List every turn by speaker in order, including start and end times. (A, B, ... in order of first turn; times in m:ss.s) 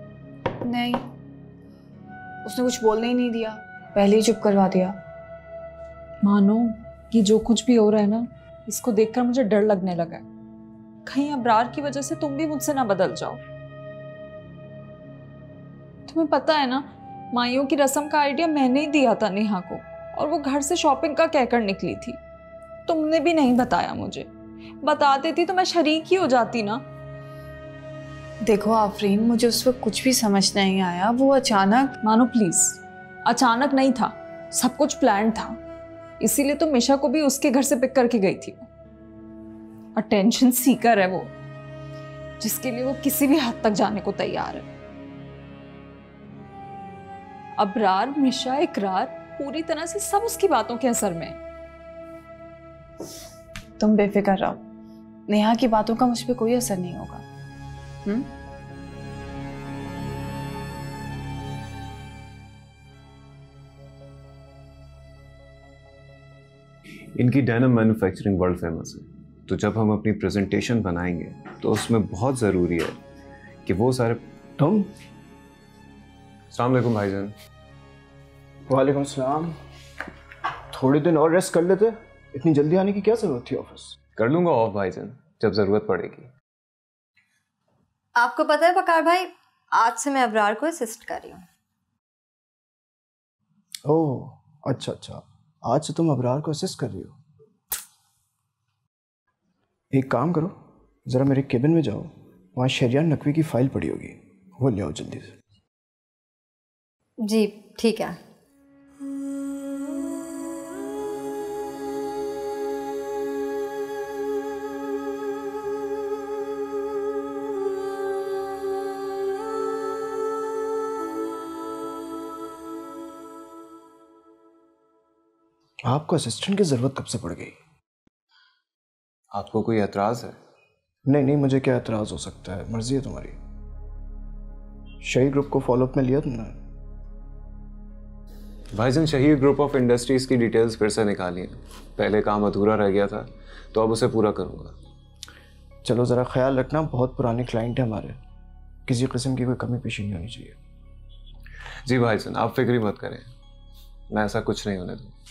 0:00.7-0:01.0 A
0:02.4-0:04.9 A
0:06.2-0:10.2 B
0:11.0-0:13.4 B
0:16.1-0:22.2 B
0:22.9-0:24.3 B
0:24.8-0:26.8 B
0:28.4-0:31.9 A
0:32.0-0:35.6 B
0:36.2-0:38.7 B
0:40.0-0:41.3 B
0:42.4-0:44.7 B
0:47.6-0:51.4 B
0:53.8-0:54.6 A
0:55.3-0:57.2 A
1:07.2-1:13.0 C
1:13.7-1:14.2 C
1:14.6-1:14.9 D
1:16.5-1:17.3 C
1:18.7-1:19.5 D
1:20.7-1:24.0 D
1:24.2-1:26.3 C
1:28.2-1:31.4 E
1:33.9-1:37.2 D
1:39.9-1:40.5 D
1:41.1-1:45.3 D
1:47.2-1:48.2 E
2:05.9-2:07.6 D
2:09.3-2:10.4 C
2:11.1-2:13.4 D
2:15.0-2:16.6 D
2:18.7-2:24.8 C
2:25.8-2:28.2 D
2:28.9-2:30.6 D
2:31.9-2:33.3 C
2:34.1-2:35.1 C